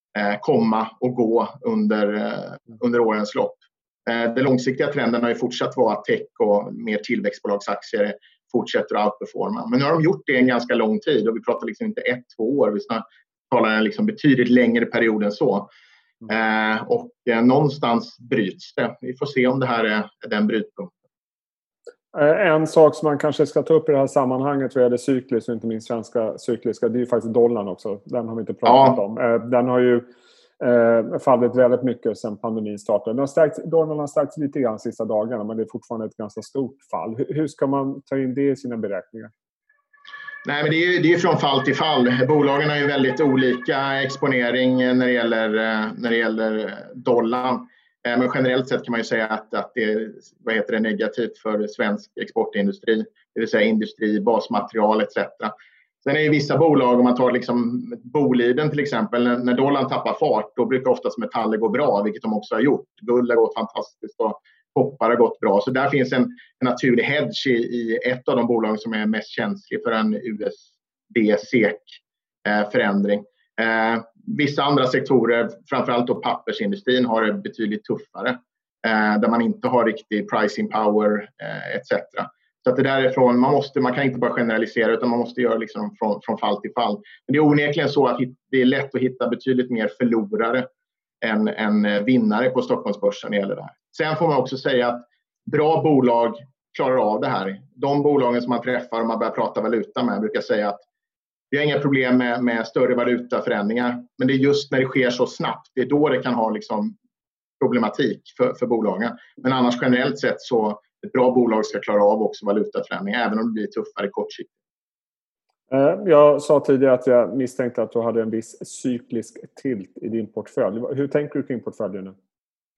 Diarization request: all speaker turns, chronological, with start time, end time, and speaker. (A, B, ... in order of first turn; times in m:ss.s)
0:00.1-0:15.7 A
0:16.3-0:20.9 A
0:22.1-0:30.0 B
0:28.6-0:29.0 A
0:30.6-0:39.3 B
0:40.4-0:55.5 A
0:56.0-1:30.7 A
1:31.2-1:40.8 A
1:41.5-1:46.9 A
1:47.6-1:54.5 A
1:55.7-2:02.1 B